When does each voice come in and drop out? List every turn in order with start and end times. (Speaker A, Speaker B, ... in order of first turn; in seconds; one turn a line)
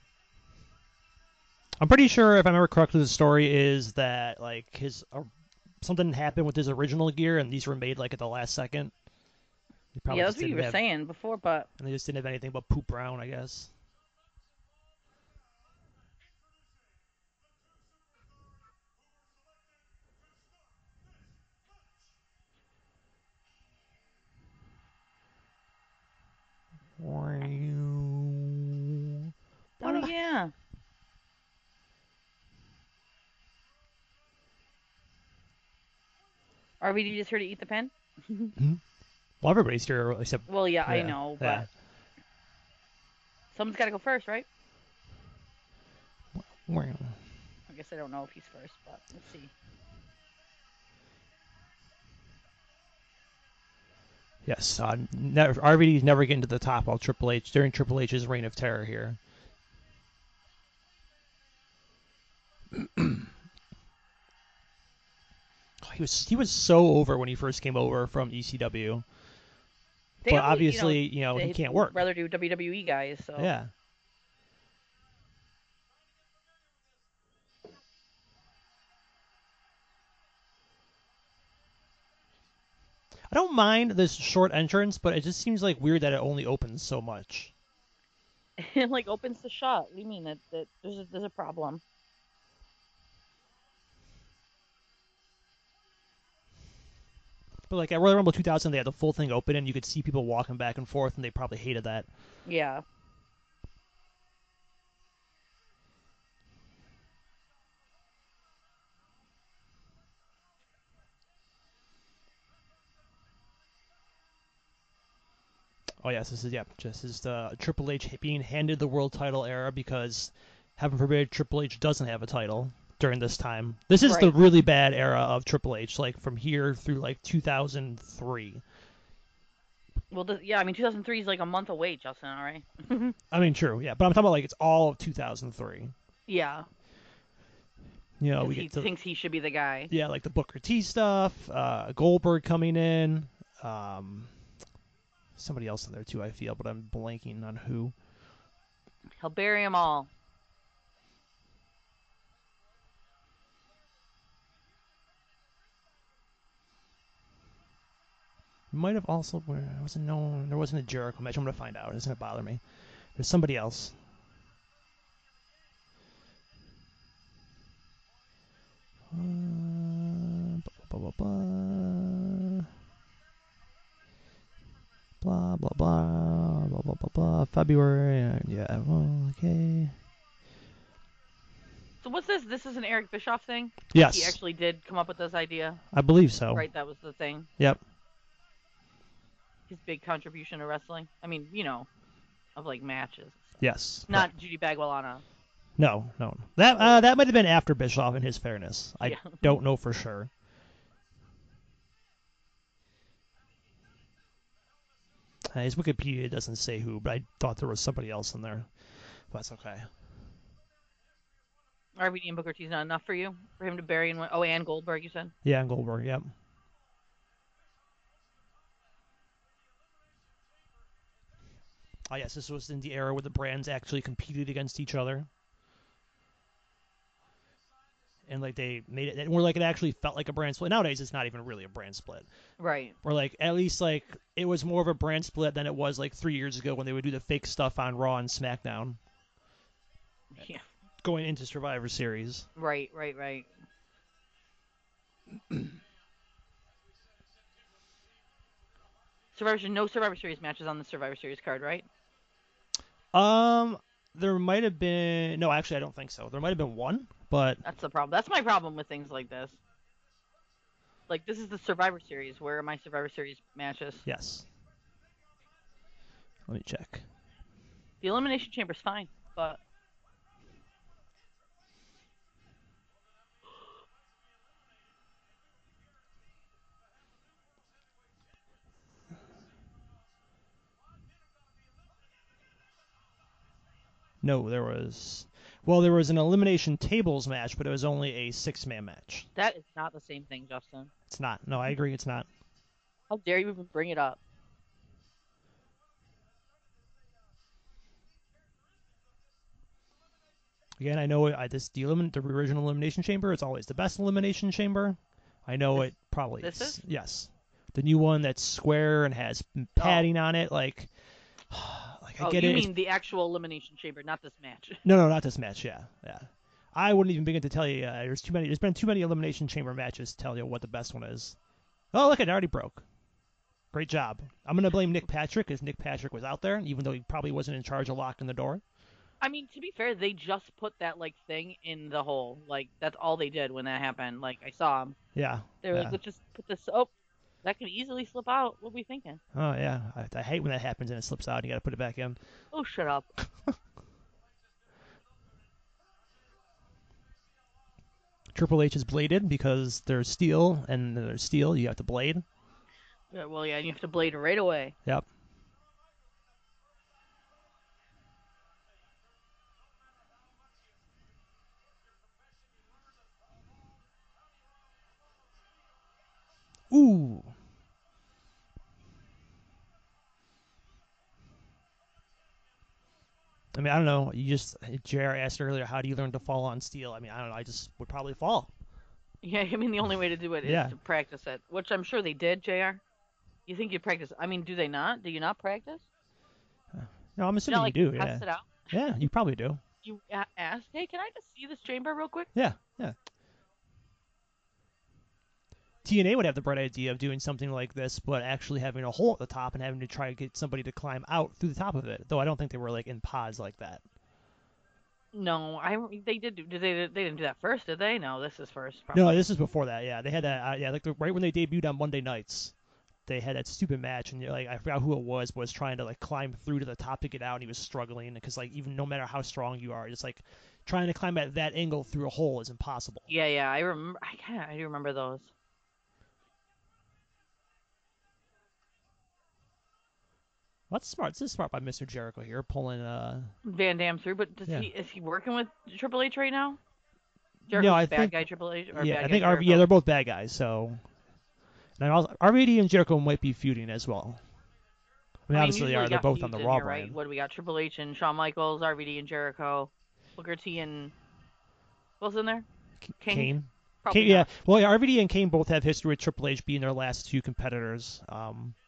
Speaker A: 1.8-5.3
Speaker A: 5.8-8.9
Speaker A: 9.9-10.8
Speaker B: 10.1-11.7
Speaker A: 11.8-13.7
Speaker A: 27.0-29.3
Speaker B: 29.8-30.5
Speaker A: 29.8-30.1
Speaker B: 36.8-38.5
Speaker A: 38.6-38.8
Speaker A: 39.4-41.7
Speaker B: 40.5-41.7
Speaker B: 43.5-44.5
Speaker A: 46.4-47.2
Speaker B: 47.7-49.5
Speaker A: 54.5-59.2
Speaker A: 62.7-63.3
Speaker A: 65.8-69.0
Speaker B: 70.2-73.5
Speaker A: 70.3-72.0
Speaker A: 73.4-73.7
Speaker A: 83.3-87.5
Speaker B: 88.6-91.8
Speaker A: 97.7-102.1
Speaker B: 102.5-102.8
Speaker A: 116.0-128.6
Speaker B: 124.0-124.3
Speaker B: 130.1-133.2
Speaker A: 133.3-135.9
Speaker B: 136.3-136.7
Speaker A: 138.2-138.9
Speaker B: 138.4-139.9
Speaker A: 139.9-144.3
Speaker A: 145.4-147.9
Speaker B: 149.2-150.1
Speaker A: 158.7-162.6
Speaker A: 163.2-163.9
Speaker A: 169.1-172.7
Speaker A: 175.2-179.9
Speaker B: 182.0-185.8
Speaker A: 183.9-184.4
Speaker A: 185.9-186.7
Speaker B: 186.5-187.5
Speaker B: 189.7-191.9
Speaker B: 192.6-193.6
Speaker A: 193.6-194.3
Speaker B: 194.1-195.2
Speaker A: 195.8-200.3
Speaker B: 196.8-197.0
Speaker B: 199.0-199.6
Speaker A: 205.5-209.9
Speaker B: 212.0-215.3
Speaker A: 215.4-216.3
Speaker A: 222.1-225.3
Speaker A: 228.3-232.3
Speaker B: 232.6-233.0
Speaker A: 233.0-239.0
Speaker B: 240.3-240.7
Speaker A: 241.0-242.5
Speaker B: 242.6-243.5
Speaker B: 249.3-251.9
Speaker A: 253.1-257.6
Speaker B: 257.6-259.6
Speaker B: 261.1-264.1
Speaker A: 264.1-264.5
Speaker A: 266.5-267.1
Speaker B: 268.0-269.6
Speaker A: 284.2-289.3
Speaker B: 289.4-290.9
Speaker A: 291.1-292.3
Speaker B: 293.1-294.2
Speaker A: 300.8-310.9
Speaker B: 306.4-306.8
Speaker B: 309.8-310.1
Speaker A: 311.5-312.7
Speaker B: 312.2-314.8
Speaker A: 314.9-321.4
Speaker A: 321.9-322.9
Speaker A: 323.7-328.6
Speaker B: 329.2-335.0
Speaker A: 335.1-336.0
Speaker B: 335.6-336.9
Speaker B: 337.4-339.2
Speaker A: 339.3-342.2
Speaker B: 342.5-343.1
Speaker A: 348.3-352.2
Speaker B: 353.1-354.8
Speaker A: 366.7-367.3
Speaker A: 373.5-378.5
Speaker B: 379.2-382.8
Speaker A: 380.4-380.8
Speaker B: 383.5-385.9
Speaker A: 386.7-389.6
Speaker B: 387.5-388.7
Speaker B: 389.8-392.3
Speaker A: 392.4-393.0
Speaker A: 395.9-403.8
Speaker B: 405.1-409.2
Speaker A: 408.9-412.5
Speaker A: 413.1-423.1
Speaker B: 423.1-425.3
Speaker A: 430.7-433.4
Speaker B: 433.4-436.6
Speaker B: 437.5-439.7
Speaker A: 437.5-438.2
Speaker A: 438.7-440.8
Speaker A: 441.8-444.2
Speaker A: 445.3-447.0
Speaker B: 445.3-450.9
Speaker B: 452.0-452.5
Speaker A: 452.9-458.6
Speaker B: 453.0-454.3